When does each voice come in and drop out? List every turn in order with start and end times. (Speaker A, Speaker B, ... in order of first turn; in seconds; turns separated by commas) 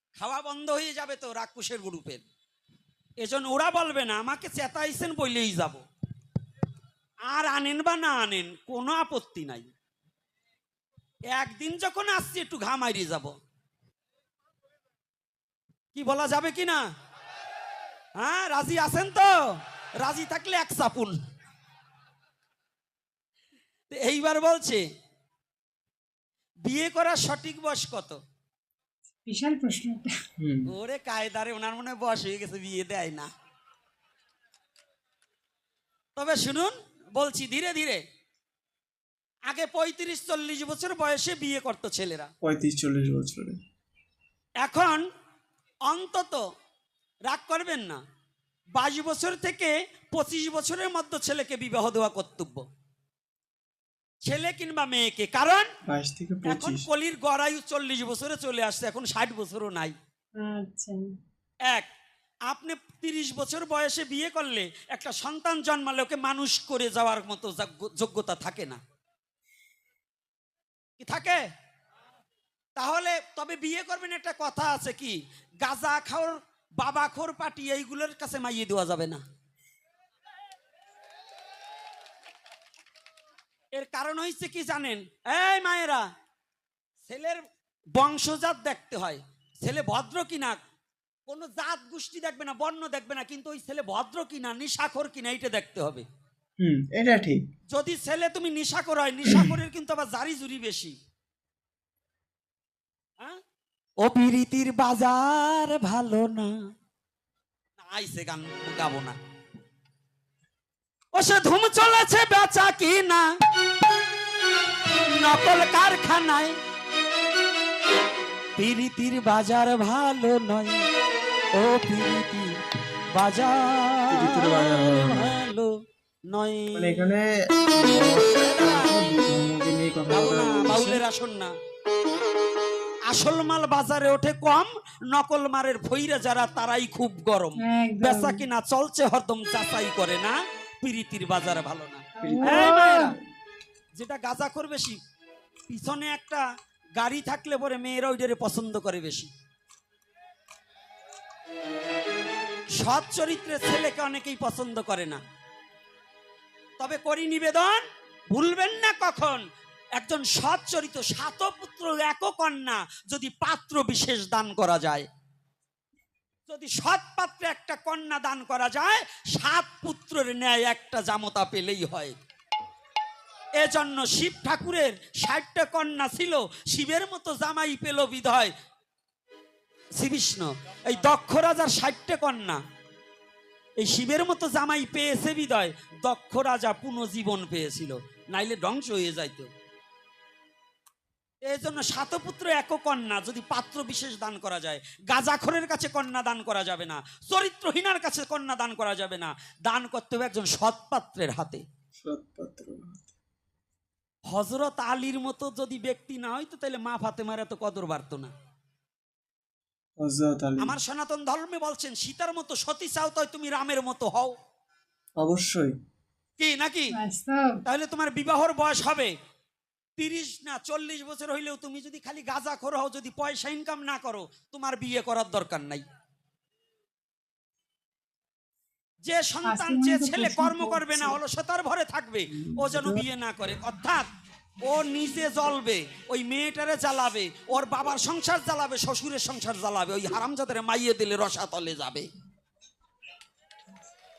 Speaker A: 0.2-2.2, Speaker A: 3.2-5.8, Speaker A: 7.3-9.7, Speaker A: 11.3-13.3, Speaker A: 15.9-16.8, Speaker A: 18.2-19.3, Speaker A: 20.0-21.2, Speaker A: 23.9-24.8, Speaker A: 26.6-28.2, Speaker B: 29.2-30.1, Speaker C: 30.4-30.7, Speaker A: 30.7-33.3, Speaker A: 36.1-38.0, Speaker A: 39.5-42.3, Speaker C: 42.4-43.6, Speaker A: 44.6-45.0, Speaker A: 45.9-46.4, Speaker A: 47.3-48.0, Speaker A: 48.7-52.6, Speaker A: 54.2-55.7, Speaker C: 55.9-56.9, Speaker A: 56.5-59.9, Speaker B: 60.4-61.0, Speaker A: 62.5-68.8, Speaker A: 71.0-71.4, Speaker A: 72.8-79.2, Speaker A: 83.8-86.0, Speaker A: 87.0-87.4, Speaker A: 88.0-90.6, Speaker A: 91.3-96.0, Speaker C: 96.6-97.4, Speaker A: 97.7-101.0, Speaker C: 99.2-99.5, Speaker A: 104.0-106.5, Speaker A: 107.8-109.2, Speaker A: 111.1-113.2, Speaker A: 115.2-116.5, Speaker A: 118.6-120.8, Speaker A: 121.5-122.5, Speaker A: 123.1-125.7, Speaker C: 124.1-125.3, Speaker A: 126.3-127.1, Speaker C: 126.7-131.0, Speaker A: 128.3-128.9, Speaker A: 130.1-131.5, Speaker A: 133.1-143.1, Speaker B: 137.6-138.4, Speaker B: 142.2-143.1, Speaker C: 142.2-143.0, Speaker A: 143.9-145.0, Speaker A: 145.7-146.4, Speaker A: 147.0-149.3, Speaker A: 152.8-155.2, Speaker A: 156.8-159.4, Speaker A: 160.0-165.1, Speaker A: 166.5-172.2, Speaker A: 173.6-178.5, Speaker A: 180.0-182.6, Speaker A: 183.8-189.5, Speaker A: 191.4-201.6, Speaker C: 202.0-203.0, Speaker A: 204.3-208.3, Speaker C: 210.0-210.7, Speaker A: 210.6-214.3, Speaker C: 215.2-215.7, Speaker A: 216.4-216.9, Speaker B: 216.9-217.6, Speaker A: 217.7-219.1, Speaker A: 220.0-225.8, Speaker A: 229.0-234.1, Speaker B: 229.4-231.2, Speaker C: 232.3-233.0, Speaker A: 234.6-242.1